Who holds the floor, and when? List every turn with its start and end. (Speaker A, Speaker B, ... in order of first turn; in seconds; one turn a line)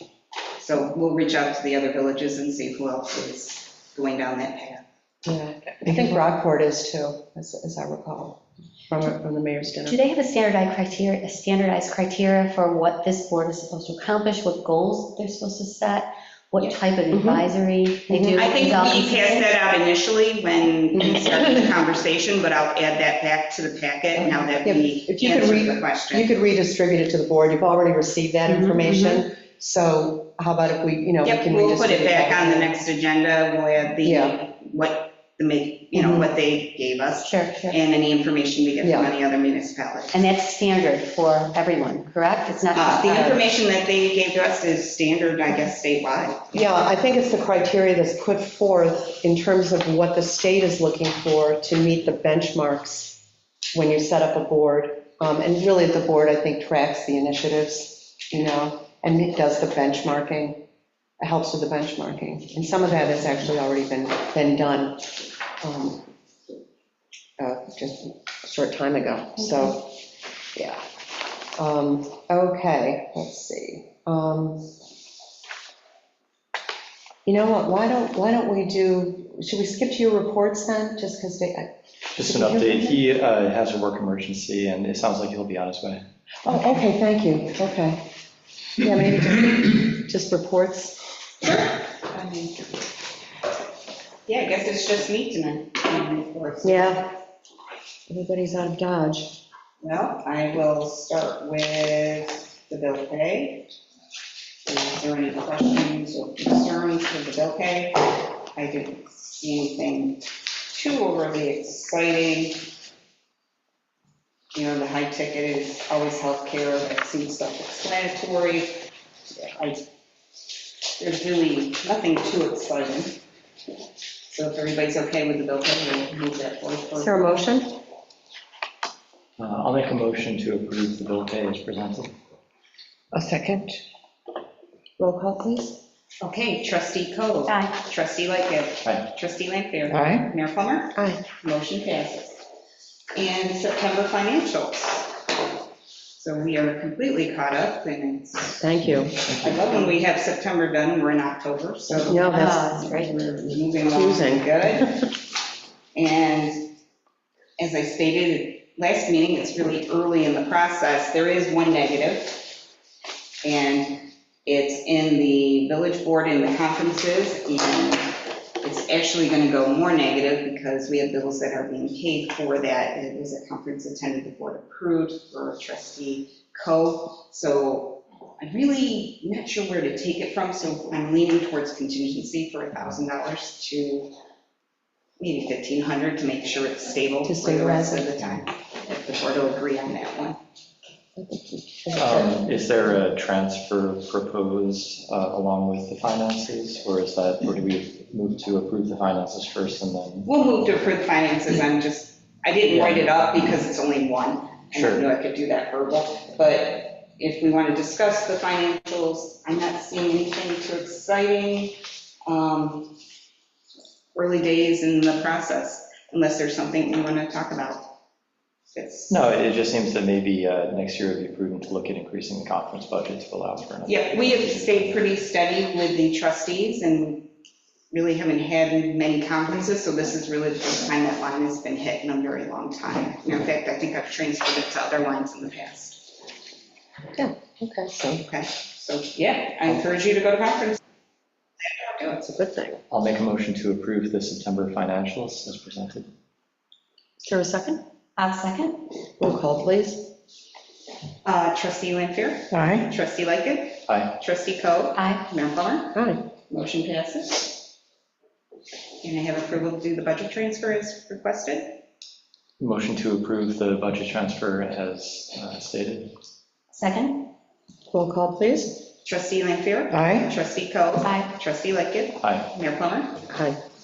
Speaker A: 0.6-4.8
Speaker B: 5.2-10.0
Speaker C: 9.9-19.5
Speaker B: 17.1-17.5
Speaker B: 18.1-18.5
Speaker A: 18.4-26.3
Speaker B: 21.0-21.4
Speaker B: 24.2-32.8
Speaker C: 28.5-29.2
Speaker A: 31.2-40.2
Speaker B: 34.0-34.4
Speaker B: 35.9-36.3
Speaker C: 37.2-37.6
Speaker B: 38.8-39.1
Speaker C: 40.1-43.5
Speaker A: 42.7-46.7
Speaker B: 46.5-53.2
Speaker B: 53.7-60.6
Speaker B: 61.2-65.1
Speaker B: 65.6-66.1
Speaker B: 67.4-69.9
Speaker C: 69.4-69.7
Speaker B: 70.6-70.8
Speaker B: 71.6-74.6
Speaker B: 77.3-83.0
Speaker D: 82.1-86.0
Speaker B: 86.4-88.0
Speaker B: 88.8-91.0
Speaker A: 91.4-92.6
Speaker A: 94.3-97.1
Speaker B: 96.6-97.1
Speaker B: 98.1-99.4
Speaker A: 99.8-103.8
Speaker A: 104.7-112.7
Speaker A: 114.5-118.8
Speaker A: 119.5-119.8
Speaker A: 121.0-123.2
Speaker A: 124.3-127.4
Speaker B: 127.0-127.8
Speaker D: 129.4-132.1
Speaker B: 133.1-133.8
Speaker B: 135.0-135.8
Speaker A: 136.2-142.4
Speaker C: 137.5-137.8
Speaker B: 139.9-140.2
Speaker B: 140.9-141.2
Speaker A: 143.2-145.1
Speaker A: 146.2-148.7
Speaker B: 148.6-149.2
Speaker D: 149.0-149.7
Speaker A: 149.4-155.0
Speaker B: 152.0-155.0
Speaker C: 152.2-153.1
Speaker A: 155.9-156.7
Speaker A: 157.6-162.5
Speaker A: 163.4-184.1
Speaker A: 185.2-190.4
Speaker B: 187.2-188.2
Speaker B: 191.2-192.6
Speaker D: 191.9-200.3
Speaker A: 200.3-212.9
Speaker D: 202.7-203.3
Speaker D: 204.7-205.1
Speaker A: 214.2-217.9
Speaker A: 218.7-219.2
Speaker D: 219.1-225.0
Speaker A: 223.9-227.2
Speaker A: 227.9-236.1
Speaker B: 237.2-238.3
Speaker A: 238.2-240.8
Speaker A: 241.6-242.2
Speaker B: 242.1-242.8
Speaker D: 242.9-246.1
Speaker B: 247.2-247.8
Speaker C: 248.2-248.8
Speaker B: 249.2-250.1
Speaker A: 251.2-255.9
Speaker B: 252.5-252.9
Speaker C: 255.0-255.2
Speaker B: 255.9-256.2
Speaker A: 256.5-257.6
Speaker A: 259.0-261.7
Speaker D: 262.6-266.1
Speaker C: 266.7-267.3
Speaker B: 267.9-268.8
Speaker A: 269.1-273.2
Speaker B: 269.9-270.3
Speaker C: 271.0-271.3
Speaker D: 272.2-272.5
Speaker B: 273.3-273.6